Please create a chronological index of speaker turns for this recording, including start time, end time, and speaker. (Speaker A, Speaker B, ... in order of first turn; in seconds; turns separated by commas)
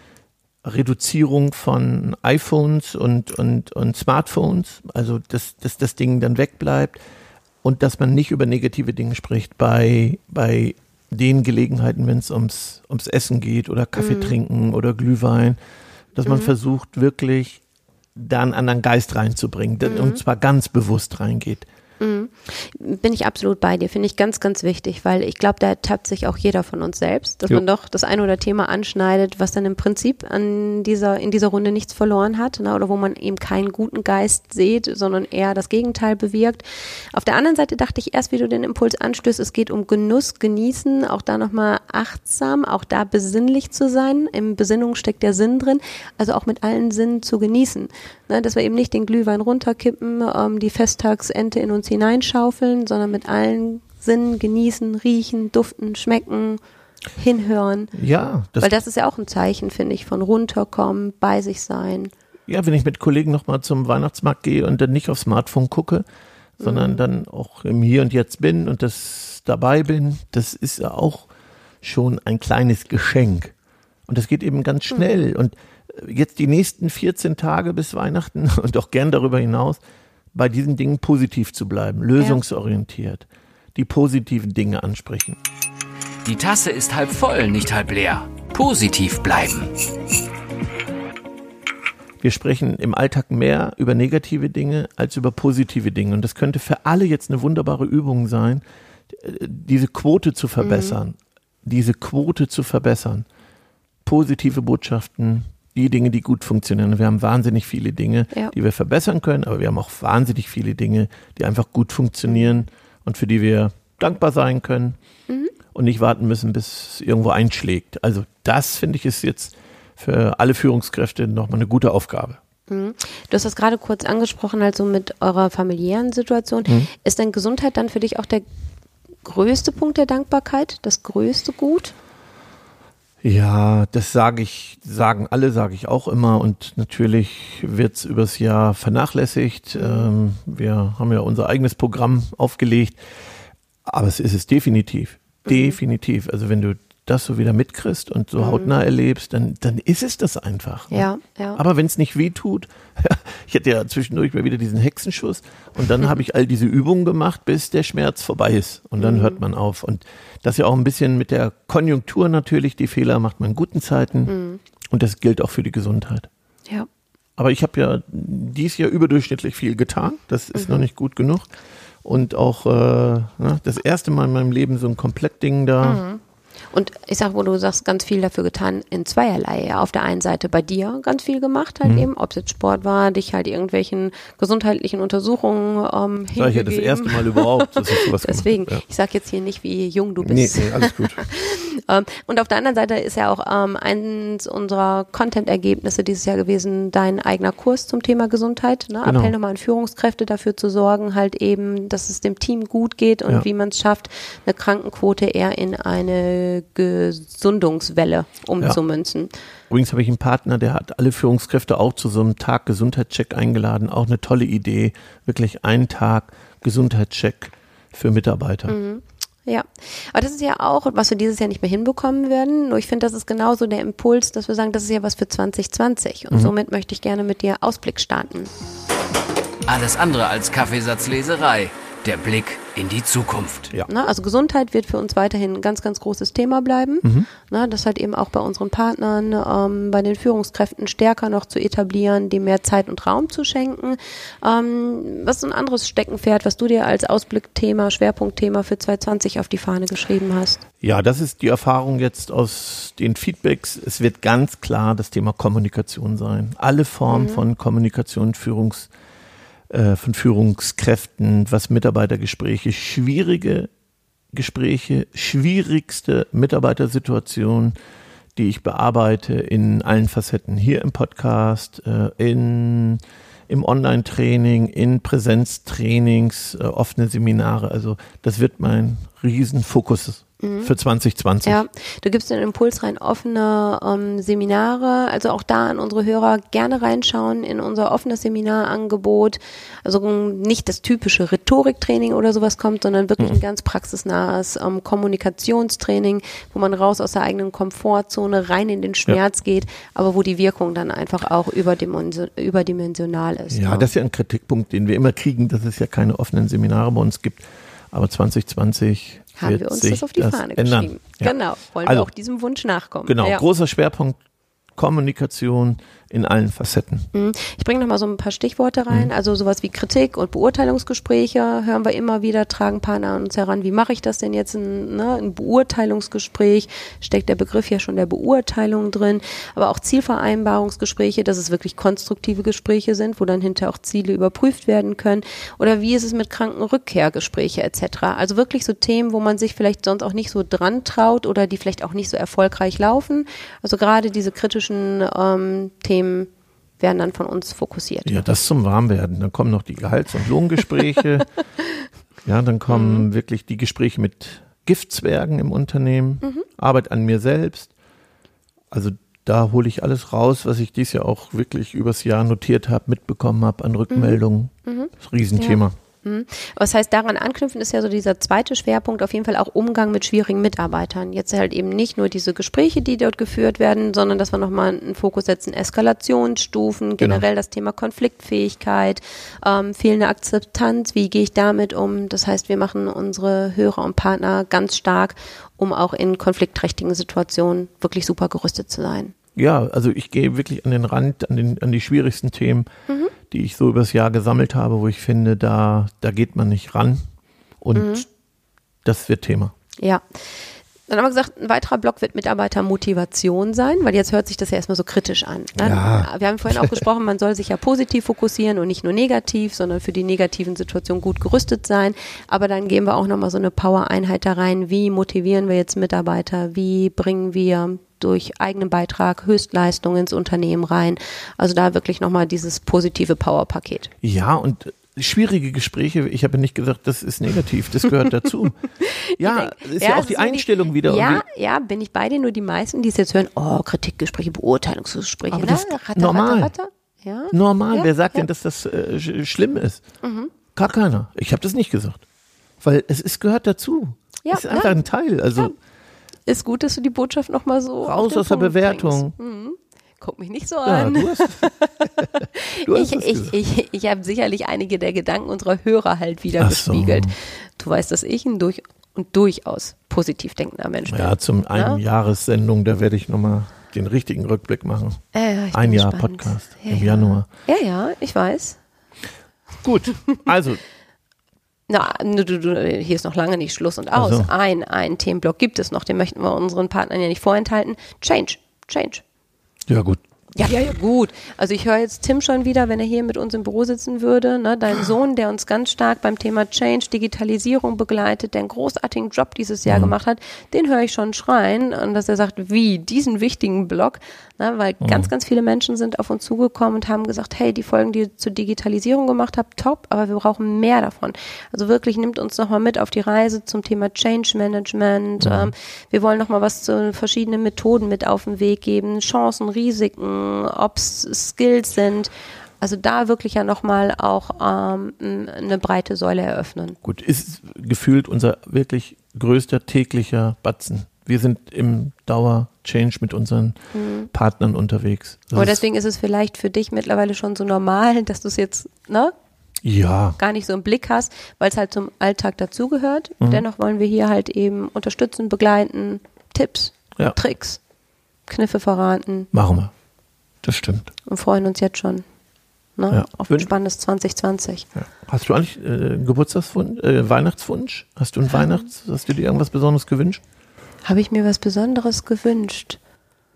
Speaker A: 0.6-7.0, Speaker A: 7.6-15.6, Speaker B: 14.0-14.3, Speaker A: 16.1-17.6, Speaker B: 16.2-16.5, Speaker A: 18.1-21.6, Speaker B: 19.8-20.2, Speaker B: 22.0-56.6, Speaker B: 57.1-57.9, Speaker A: 57.9-58.7, Speaker B: 58.6-62.1, Speaker A: 62.5-66.0, Speaker B: 66.6-67.0, Speaker A: 66.6-71.3, Speaker A: 71.8-73.5, Speaker A: 74.1-79.8, Speaker B: 74.9-75.2, Speaker A: 80.3-85.4, Speaker C: 86.2-89.7, Speaker A: 92.2-103.2, Speaker B: 100.6-101.0, Speaker A: 104.0-115.0, Speaker B: 112.3-112.5, Speaker B: 115.3-115.5, Speaker A: 115.7-122.4, Speaker B: 122.7-128.4, Speaker B: 129.2-131.9, Speaker A: 133.2-143.0, Speaker B: 139.7-140.1, Speaker A: 143.8-164.3, Speaker B: 145.5-145.8, Speaker B: 148.4-148.7, Speaker B: 150.9-151.6, Speaker B: 159.0-159.4, Speaker B: 164.3-164.6, Speaker A: 164.9-166.3, Speaker A: 167.4-171.5, Speaker B: 170.5-170.9, Speaker A: 172.0-176.0, Speaker B: 175.8-176.2, Speaker B: 176.7-209.3, Speaker A: 181.8-182.1, Speaker A: 186.3-188.8, Speaker A: 190.2-191.2, Speaker A: 199.0-199.3, Speaker A: 209.7-218.8, Speaker B: 218.7-228.5, Speaker C: 229.7-233.7, Speaker B: 233.8-250.6, Speaker A: 237.0-237.3, Speaker A: 250.8-258.9, Speaker B: 257.1-257.4, Speaker A: 259.7-263.7, Speaker A: 264.3-267.7, Speaker A: 268.4-281.6, Speaker B: 280.4-280.7, Speaker B: 281.4-303.9, Speaker A: 303.5-312.1, Speaker B: 309.4-313.4, Speaker A: 313.1-314.2, Speaker A: 314.8-317.1, Speaker B: 317.1-348.2, Speaker A: 348.0-351.3, Speaker A: 352.2-357.7, Speaker B: 352.7-353.1, Speaker A: 358.7-365.7, Speaker B: 363.9-389.1, Speaker A: 377.0-377.2, Speaker A: 389.4-392.7, Speaker B: 392.9-393.1, Speaker A: 393.3-397.0, Speaker A: 397.6-398.0, Speaker B: 397.7-398.1, Speaker A: 398.8-399.5, Speaker B: 399.8-423.9, Speaker A: 405.6-406.8, Speaker A: 424.0-428.6, Speaker B: 428.8-438.3, Speaker A: 429.2-431.2, Speaker A: 435.3-436.5, Speaker A: 437.3-439.8, Speaker B: 440.0-440.3, Speaker A: 440.6-442.0, Speaker A: 442.6-445.5, Speaker B: 444.2-444.8, Speaker B: 446.2-451.7, Speaker A: 447.8-449.1, Speaker A: 450.6-453.4, Speaker B: 452.3-461.8, Speaker A: 456.4-457.1, Speaker A: 460.9-465.0, Speaker B: 465.1-468.6, Speaker A: 465.5-467.3, Speaker A: 469.6-470.6, Speaker B: 471.7-479.0, Speaker A: 473.9-474.3, Speaker A: 479.7-480.0, Speaker B: 480.3-516.8, Speaker A: 489.7-489.9, Speaker A: 494.8-495.1, Speaker A: 505.2-505.5, Speaker A: 516.8-523.6, Speaker B: 523.7-524.1, Speaker A: 524.1-525.6, Speaker B: 525.3-529.1, Speaker A: 529.6-530.2, Speaker B: 530.2-537.6, Speaker B: 538.3-539.3, Speaker A: 539.3-539.7, Speaker A: 540.4-540.9, Speaker B: 541.0-542.0, Speaker B: 542.8-544.7, Speaker A: 542.9-543.5, Speaker A: 544.8-550.2, Speaker B: 550.8-552.8